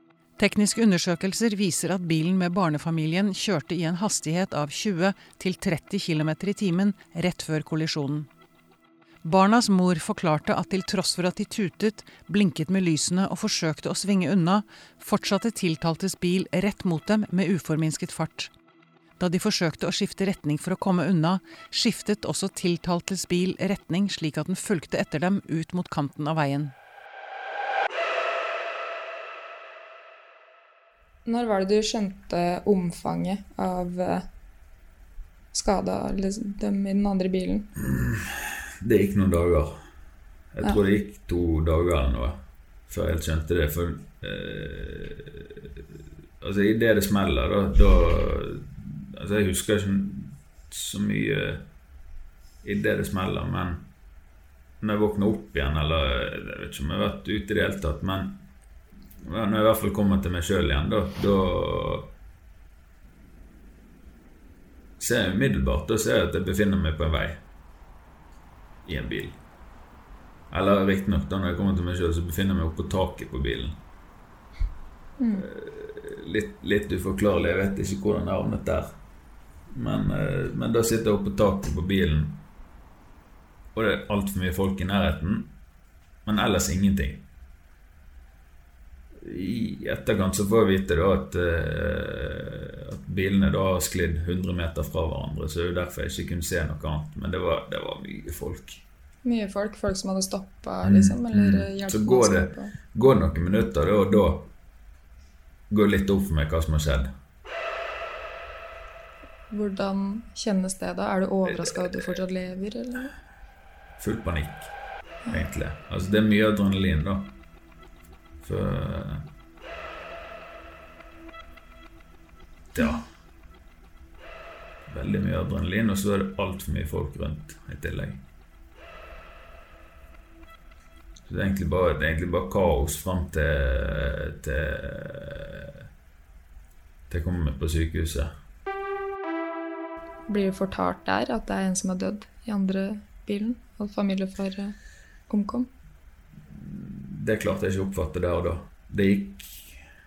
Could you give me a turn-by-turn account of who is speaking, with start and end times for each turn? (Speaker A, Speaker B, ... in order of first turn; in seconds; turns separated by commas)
Speaker A: 0.4-8.3, Speaker A: 9.2-18.5, Speaker A: 19.2-26.7, Speaker B: 31.3-34.2, Speaker B: 35.5-37.7, Speaker C: 37.8-39.8, Speaker C: 40.5-45.6, Speaker C: 46.4-51.7, Speaker C: 52.6-53.8, Speaker C: 54.8-58.4, Speaker C: 59.2-62.1, Speaker C: 65.0-67.4, Speaker C: 68.8-69.4, Speaker C: 70.5-73.8, Speaker B: 75.2-75.5, Speaker C: 75.4-78.9, Speaker C: 79.7-82.5, Speaker C: 83.8-85.5, Speaker C: 86.3-87.2, Speaker C: 89.2-98.8, Speaker B: 99.2-102.7, Speaker C: 100.8-104.5, Speaker C: 105.7-107.1, Speaker B: 109.5-113.1, Speaker C: 114.0-114.7, Speaker C: 115.3-117.3, Speaker C: 118.4-119.3, Speaker C: 122.7-123.1, Speaker C: 124.9-128.2, Speaker C: 131.3-135.7, Speaker C: 137.1-138.3, Speaker B: 140.3-144.8, Speaker B: 145.3-145.7, Speaker C: 146.5-149.8